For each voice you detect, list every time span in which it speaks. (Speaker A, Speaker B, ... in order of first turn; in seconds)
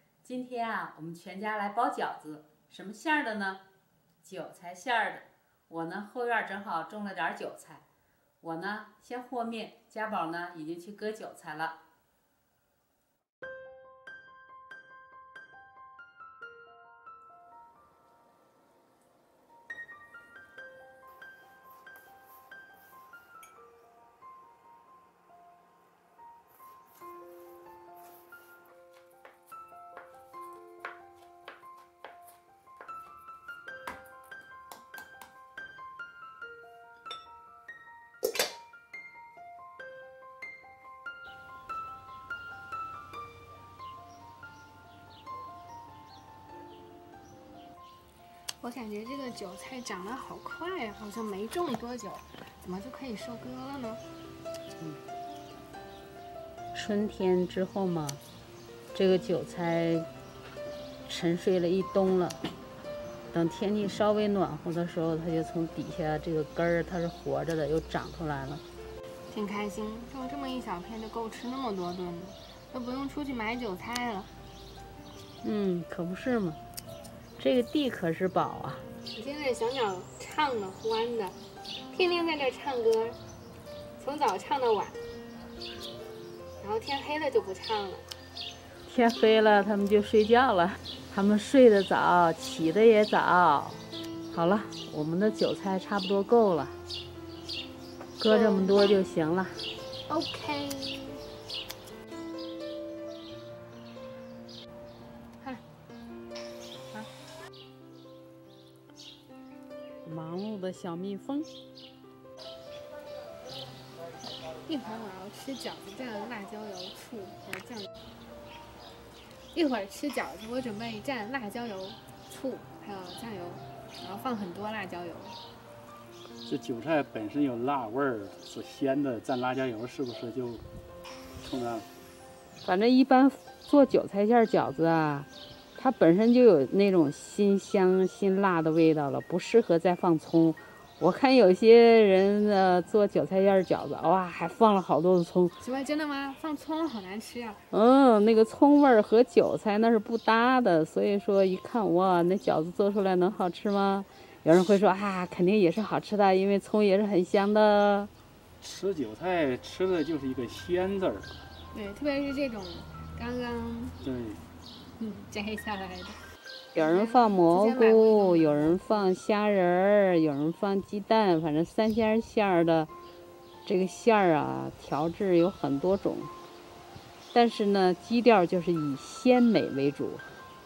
Speaker A: 0.2-3.6, 4.2-7.8, 8.4-11.8, 56.7-58.2, 58.9-60.1, 61.0-62.4, 63.3-68.6, 75.4-76.6, 77.4-78.8, 88.8-96.8, 98.2-99.6, 110.0-111.5, 132.6-145.5, 147.7-158.1, 166.7-172.9, 173.6-176.3, 177.3-180.3
Speaker B: 48.6-54.0, 69.3-74.3, 79.1-81.4, 81.9-83.2, 84.0-85.0, 86.6-88.0, 98.2-99.0, 100.1-101.2, 114.6-117.9, 119.5-125.4, 145.6-147.6, 161.7-164.0, 165.0-166.2, 166.8-169.1
Speaker C: 126.4-130.6, 131.4-131.9, 158.6-161.3, 164.0-164.4